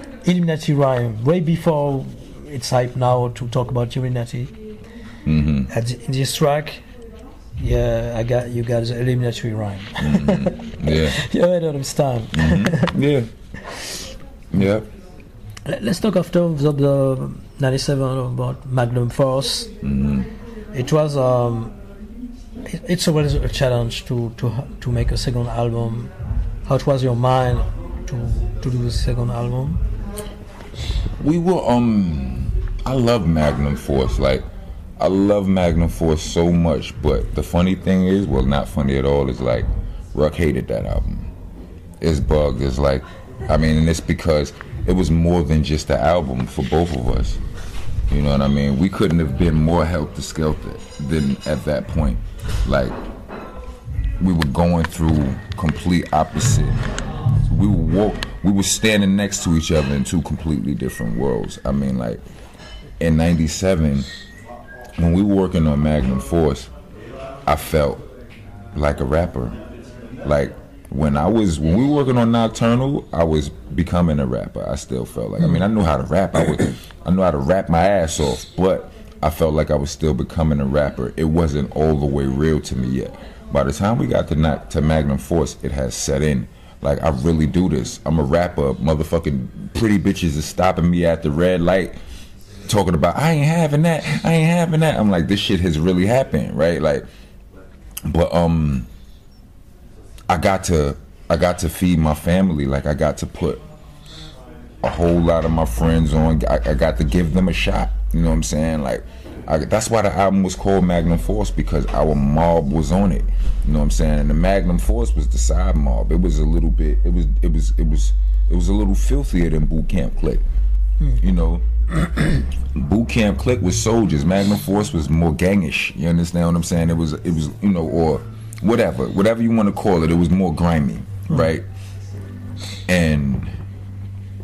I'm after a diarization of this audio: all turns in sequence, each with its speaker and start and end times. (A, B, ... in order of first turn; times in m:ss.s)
0:00.2-0:04.6 A
0:05.3-0:05.7 B
0:05.7-0:06.8 A
0:07.6-0:13.0 A
0:10.0-0:11.2 B
0:12.3-0:13.3 B
0:14.5-0:14.9 B
0:15.7-0:19.7 A
0:19.8-0:20.3 B
0:20.7-0:21.7 A
0:22.7-0:26.1 A
0:26.7-0:29.8 A
0:31.2-0:34.5 B
0:35.0-0:41.3 B
0:42.0-0:47.4 B
0:48.1-0:53.0 B
0:54.2-0:56.8 B
0:57.5-1:02.2 B
1:03.0-1:04.1 B
1:05.0-1:06.7 B
1:07.5-1:08.1 B
1:08.7-1:09.6 B
1:10.2-1:32.0 B
1:32.7-1:37.1 B
1:38.0-1:38.9 B
1:40.3-1:43.6 B
1:44.8-2:00.4 B
2:01.2-2:01.7 B
2:02.7-2:11.7 B
2:12.9-2:13.6 B